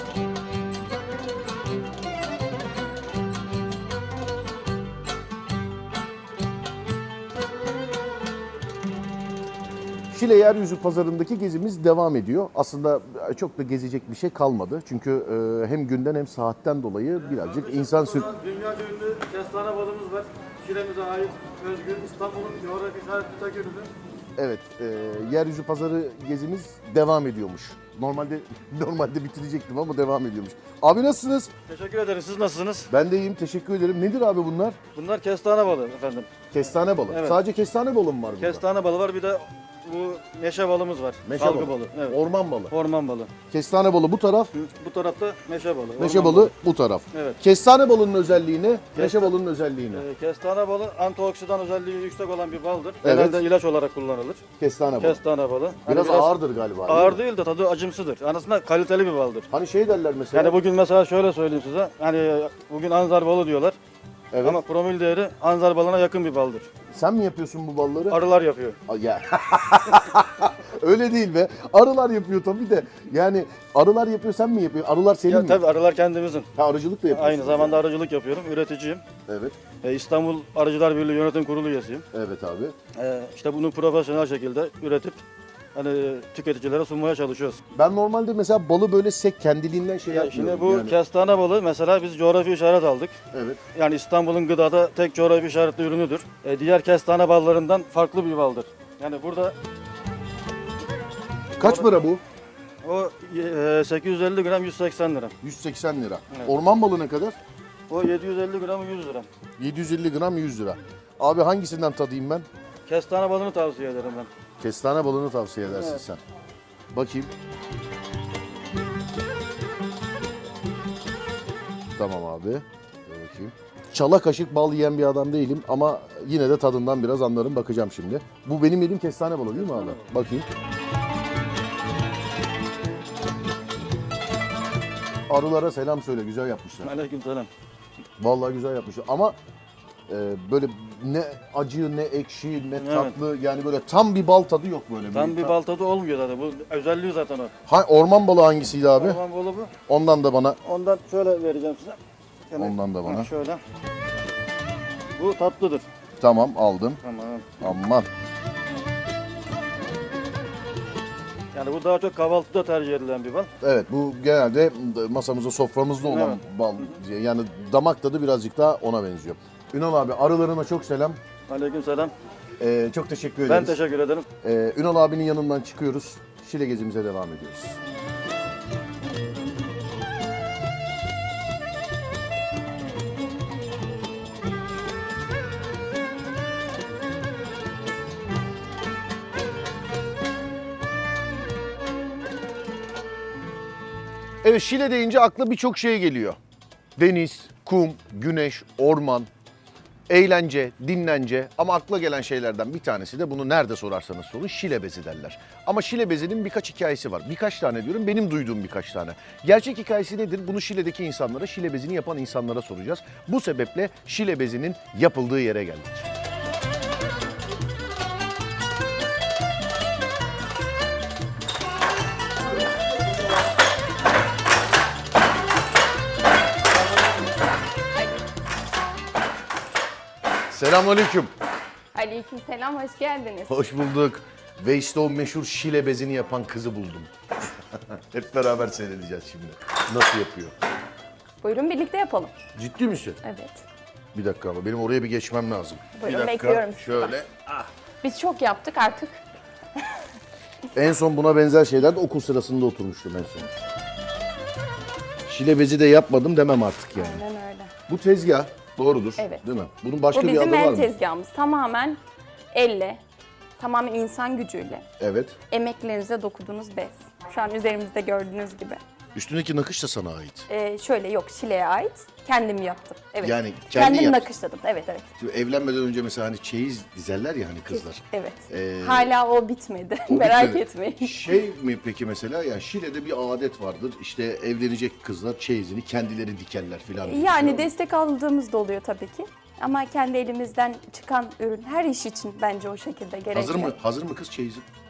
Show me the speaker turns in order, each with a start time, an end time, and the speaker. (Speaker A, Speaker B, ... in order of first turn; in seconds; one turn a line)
Speaker A: 10.1-18.3
Speaker B: 17.3-23.9
Speaker A: 24.4-31.5
Speaker B: 31.7-32.9
Speaker A: 32.9-34.8
Speaker B: 35.0-36.3
Speaker A: 36.5-38.6
Speaker B: 37.1-37.4
Speaker B: 38.4-42.2
Speaker A: 41.2-42.8
Speaker B: 42.7-43.3
Speaker A: 43.5-44.5
Speaker B: 44.5-46.5
Speaker A: 46.0-50.1
Speaker B: 47.1-47.4
Speaker B: 49.0-49.3
Speaker B: 49.9-54.4
Speaker A: 53.0-53.5
Speaker A: 54.6-55.2
Speaker B: 55.0-59.5
Speaker A: 55.9-57.2
Speaker A: 59.5-60.6
Speaker B: 60.3-63.8
Speaker A: 64.3-64.6
Speaker B: 64.4-66.7
Speaker A: 66.9-68.2
Speaker B: 68.1-68.8
Speaker A: 68.9-75.6
Speaker B: 75.3-76.5
Speaker A: 76.5-77.8
Speaker B: 77.1-79.0
Speaker A: 79.3-79.6
Speaker B: 79.8-82.0
Speaker A: 82.1-82.8
Speaker B: 83.0-85.2
Speaker B: 85.8-87.6
Speaker A: 87.7-91.0
Speaker B: 90.1-93.2
Speaker A: 93.3-93.6
Speaker B: 93.8-99.5
Speaker A: 101.6-102.2
Speaker B: 101.6-101.9
Speaker B: 102.8-105.3
Speaker A: 105.4-107.4
Speaker B: 107.9-109.3
Speaker A: 109.6-112.5
Speaker B: 112.9-114.3
Speaker A: 114.6-116.2
Speaker B: 115.7-116.0
Speaker A: 116.9-117.3
Speaker A: 122.0-130.5
Speaker B: 129.6-130.0
Speaker A: 135.3-136.9
Speaker B: 136.8-137.5
Speaker A: 138.2-139.4
Speaker A: 140.1-145.6
Speaker B: 142.8-143.2
Speaker B: 145.1-147.5
Speaker A: 147.7-149.2
Speaker B: 149.0-149.7
Speaker A: 149.9-150.6
Speaker B: 150.7-152.0
Speaker B: 152.5-153.6
Speaker A: 152.6-153.3
Speaker B: 155.2-155.9
Speaker A: 156.2-157.0
Speaker B: 157.0-157.5
Speaker A: 157.6-158.1
Speaker B: 161.5-163.5
Speaker A: 163.6-171.2
Speaker B: 166.1-166.4
Speaker B: 171.5-172.1
Speaker A: 172.6-173.8
Speaker B: 173.5-174.3
Speaker A: 174.4-177.8
Speaker A: 194.4-196.4
Speaker A: 197.0-199.3
Speaker A: 200.1-216.1
Speaker A: 230.5-231.3
Speaker C: 231.9-233.5
Speaker A: 233.5-237.1
Speaker A: 237.7-240.5
Speaker C: 241.4-242.3
Speaker A: 242.6-243.2
Speaker C: 243.2-243.6
Speaker A: 244.1-247.7
Speaker C: 246.0-247.1
Speaker C: 248.0-249.2
Speaker A: 250.7-253.5
Speaker A: 255.3-257.2
Speaker C: 257.0-257.7
Speaker A: 257.9-260.9
Speaker C: 260.1-262.0
Speaker C: 262.5-263.0
Speaker C: 263.6-264.9
Speaker A: 265.0-265.4
Speaker C: 265.5-268.8
Speaker A: 269.1-270.5
Speaker C: 270.5-275.1
Speaker A: 273.2-274.3
Speaker A: 275.2-279.1
Speaker C: 277.7-281.2
Speaker A: 280.1-287.7
Speaker C: 287.0-293.8
Speaker A: 293.3-294.6